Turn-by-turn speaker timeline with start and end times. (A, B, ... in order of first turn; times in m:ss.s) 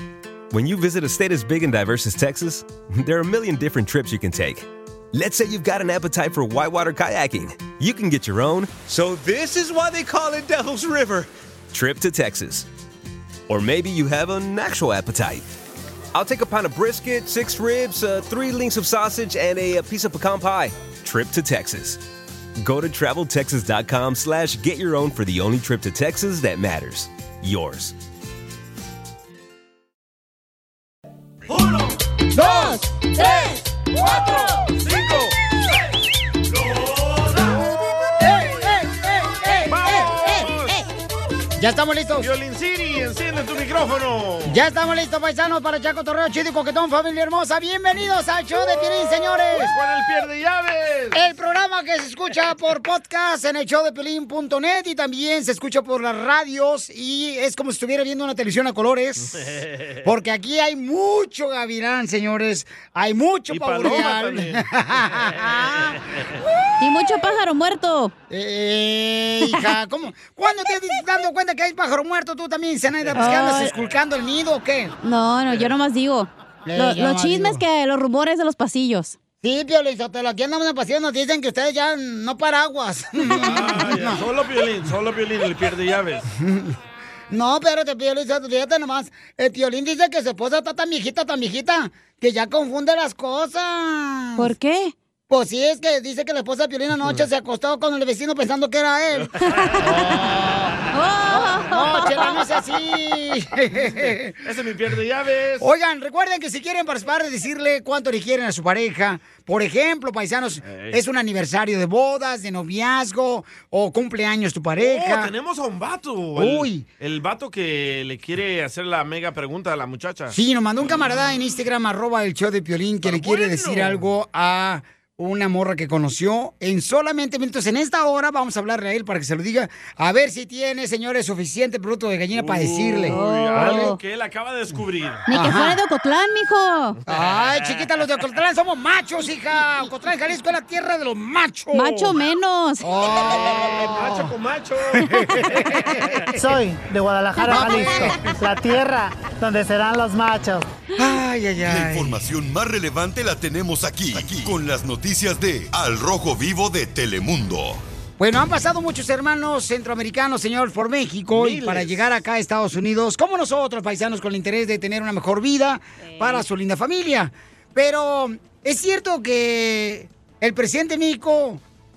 0:00.5-0:12.6 A
0:13.5-0:15.4 A
0:16.1-0:22.0 A
0:22.6-0:27.9 A
0:32.3-0:32.8 B
0:32.4-0:34.7 C
0:34.6-0:35.3 D
0:38.4-0:40.1 B
0:39.5-0:40.8 C
0:39.7-0:40.7 D
0:41.6-0:42.3 B
0:42.2-0:44.6 D
0:44.4-0:49.7 B
0:49.5-0:51.2 D
0:51.1-0:59.4 B
0:59.3-0:59.9 D
1:00.0-1:06.0 B
1:03.5-1:06.3 D
1:06.8-1:07.1 B
1:06.8-1:08.1 C
1:08.3-1:14.9 B
1:13.2-1:13.7 C
1:15.0-1:19.2 C
1:16.7-1:17.6 B
1:19.4-1:24.2 B
1:23.3-1:26.2 D
1:26.3-1:26.8 B
1:27.3-1:34.5 B
1:34.4-1:34.9 C
1:35.3-1:44.4 B
1:40.9-1:42.4 C
1:44.4-1:45.7 D
1:45.6-1:55.3 B
1:50.6-1:51.0 D
1:54.8-2:00.3 D
1:56.3-1:56.8 B
2:00.3-2:14.0 B
2:03.0-2:04.1 D
2:12.3-2:15.2 D
2:13.1-2:14.0 C
2:15.3-2:17.0 C
2:15.3-2:15.8 B
2:17.0-2:22.2 B
2:17.1-2:17.8 D
2:21.7-2:22.9 C
2:22.8-2:24.3 B
2:23.0-2:25.5 D
2:24.9-2:26.2 B
2:26.3-2:30.7 E
2:27.4-2:28.2 B
2:31.0-2:32.2 B
2:31.6-2:37.8 F
2:38.2-2:51.6 B
2:41.3-2:42.1 D
2:46.2-2:46.4 C